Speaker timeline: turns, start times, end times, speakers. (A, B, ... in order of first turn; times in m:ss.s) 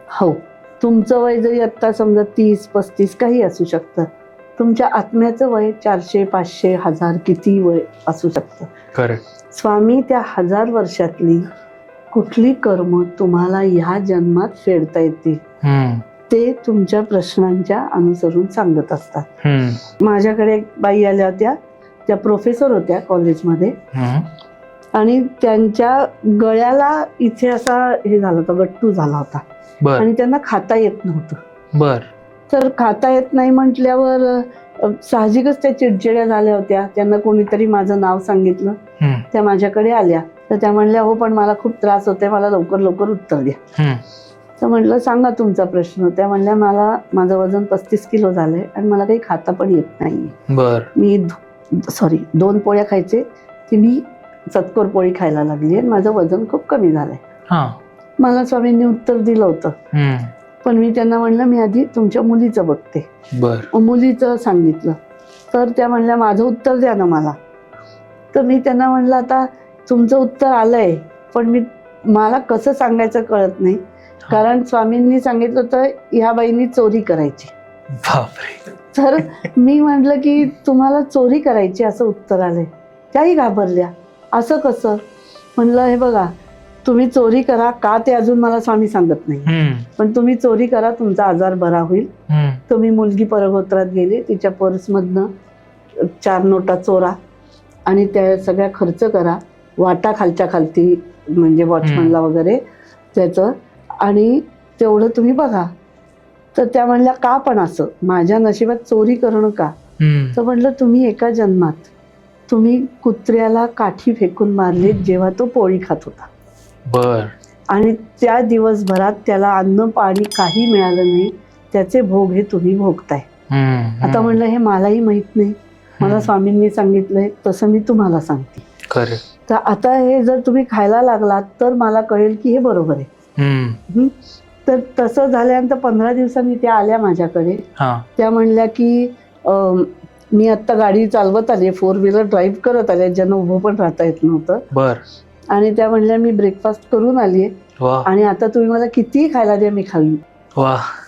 0:00.1-0:08.7 A
0:08.9-0:09.2 B
0:09.5-0:11.5 A
0:12.1-0:15.4 A
0:15.6-0:16.0 B
0:16.3-0:19.2 A
0:19.4-0:19.8 B
0:20.0-0:23.7 A
0:23.9-0:24.3 B
0:24.9-0:29.4 A
0:30.0-0:31.4 A
0:31.7-0:32.1 B
0:32.5-0:38.8 A
0:39.0-0:39.2 B
0:39.3-0:43.6 A
0:43.8-0:44.0 B
0:44.6-0:50.4 A
0:50.5-0:50.9 B
0:50.9-0:57.2 A
0:57.5-0:57.8 B
0:58.2-0:59.7 A
0:59.9-1:00.3 B
1:00.6-1:03.1 A
1:03.3-1:03.7 B
1:03.7-1:05.0 A
1:05.5-1:07.4 A
1:08.3-1:17.5 A
1:18.0-1:18.7 B
1:18.9-1:25.0 A
1:25.6-1:26.3 A
1:26.8-1:32.1 A
1:29.4-1:29.9 B
1:32.3-1:32.6 B
1:32.7-1:35.3 A
1:36.0-1:37.2 A
1:37.9-1:42.6 A
1:41.8-1:42.1 B
1:43.1-1:45.7 A
1:46.5-1:49.7 A
1:50.0-1:50.4 B
1:50.3-1:51.9 A
1:52.5-1:56.3 A
1:56.9-1:57.3 B
1:57.7-2:03.2 A
2:03.5-2:04.4 B
2:04.0-2:08.6 A
2:06.0-2:06.3 B
2:08.9-2:09.2 B
2:09.4-2:13.1 A
2:13.4-2:13.8 B
2:14.6-2:17.6 A
2:17.8-2:18.1 B
2:18.2-2:24.6 A
2:24.7-2:25.0 B
2:25.5-2:27.5 A
2:27.8-2:28.1 B
2:28.0-2:30.2 A
2:30.6-2:30.8 B